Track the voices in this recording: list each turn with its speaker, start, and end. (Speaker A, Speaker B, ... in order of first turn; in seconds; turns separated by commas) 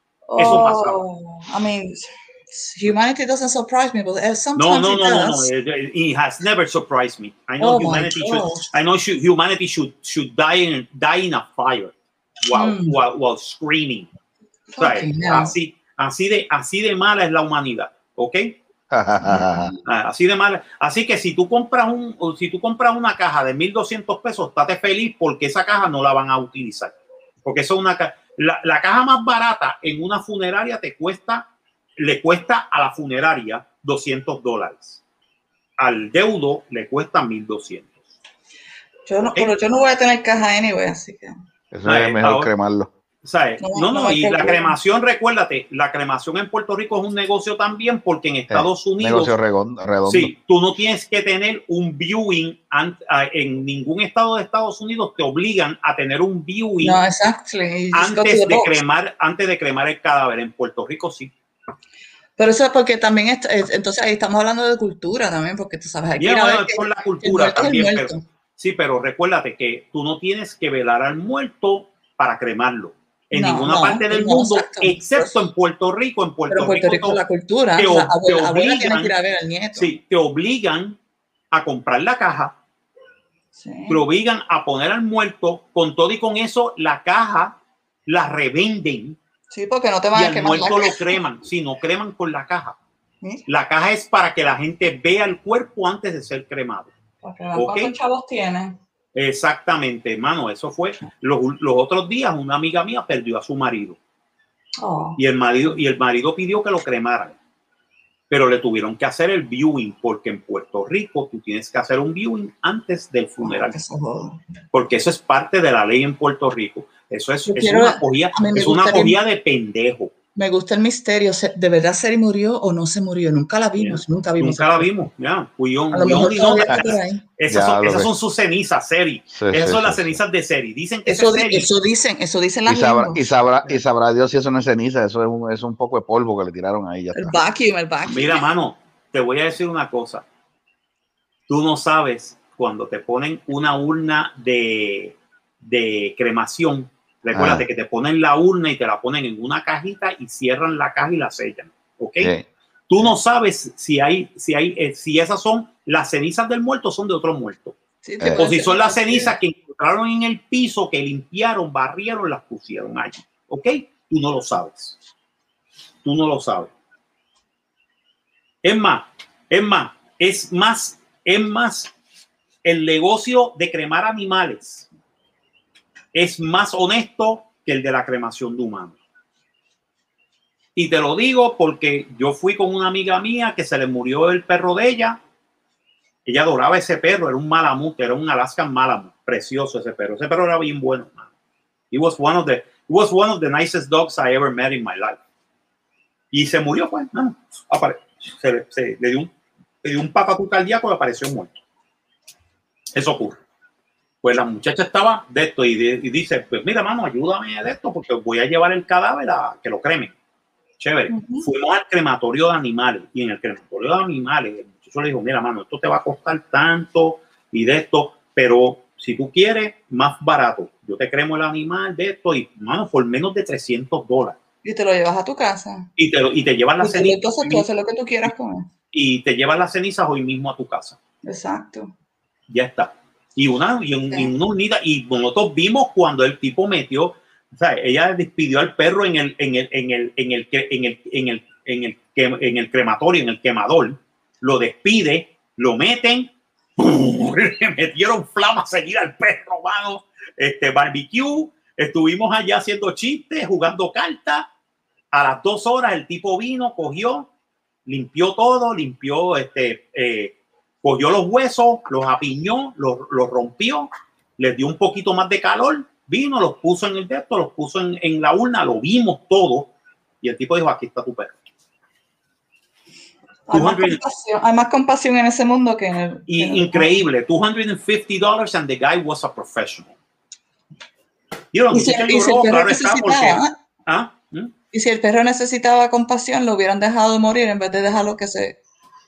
Speaker A: 0.3-5.5, Speaker B: 0.3-1.0, Speaker B: 4.5-11.9, Speaker A: 7.6-8.6, Speaker B: 12.4-14.1, Speaker A: 12.5-12.9, Speaker A: 14.7-15.5, Speaker B: 14.8-18.5, Speaker C: 18.9-19.7, Speaker B: 19.9-26.9, Speaker B: 27.4-31.5, Speaker B: 32.0-35.0, Speaker B: 35.8-37.9, Speaker A: 39.1-41.3, Speaker C: 41.7-42.9, Speaker B: 41.9-42.5, Speaker B: 43.2-49.3, Speaker A: 43.6-44.7, Speaker C: 48.5-50.3, Speaker B: 50.0-57.0, Speaker A: 56.8-58.8, Speaker B: 57.9-61.3, Speaker A: 62.4-68.2, Speaker B: 66.2-77.2, Speaker A: 73.3-75.3, Speaker A: 76.5-79.9, Speaker B: 77.8-79.1, Speaker B: 79.7-81.0, Speaker B: 81.5-82.5, Speaker A: 83.5-84.0, Speaker B: 83.9-87.5, Speaker B: 88.1-89.2, Speaker A: 89.5-91.2, Speaker B: 90.1-92.8, Speaker B: 93.5-96.9, Speaker A: 97.2-98.8, Speaker B: 97.5-97.9, Speaker B: 99.1-104.0, Speaker A: 104.8-105.2, Speaker B: 105.2-107.3, Speaker B: 108.3-113.7, Speaker A: 113.4-114.4, Speaker B: 114.7-120.1, Speaker A: 117.5-119.2, Speaker A: 120.3-124.9, Speaker B: 123.8-131.7, Speaker A: 125.9-127.2, Speaker C: 127.5-128.1, Speaker C: 129.3-130.2, Speaker A: 131.1-133.2, Speaker C: 132.7-137.4, Speaker A: 137.1-138.4, Speaker B: 138.1-140.2, Speaker B: 141.5-152.3, Speaker C: 147.3-147.6, Speaker C: 152.2-152.4, Speaker B: 152.9-157.8, Speaker A: 158.0-159.3, Speaker B: 158.3-164.9, Speaker B: 166.0-166.7, Speaker B: 168.6-171.9, Speaker B: 172.6-174.9, Speaker B: 176.1-178.9, Speaker B: 180.8-185.2, Speaker B: 186.2-191.3, Speaker B: 191.9-195.2, Speaker B: 196.3-199.3, Speaker B: 199.8-201.6, Speaker B: 202.9-203.4, Speaker B: 204.2-210.1, Speaker B: 210.8-224.4, Speaker A: 211.1-211.5, Speaker A: 224.6-225.9, Speaker B: 226.0-227.7, Speaker A: 226.8-228.7, Speaker B: 228.9-231.0, Speaker A: 231.2-231.9, Speaker B: 232.5-254.5, Speaker B: 255.1-257.3, Speaker B: 257.9-269.7, Speaker B: 270.2-271.3, Speaker A: 273.5-276.9, Speaker B: 273.5-274.0, Speaker B: 276.3-279.9, Speaker B: 281.5-284.5, Speaker A: 281.7-283.5, Speaker A: 284.7-288.6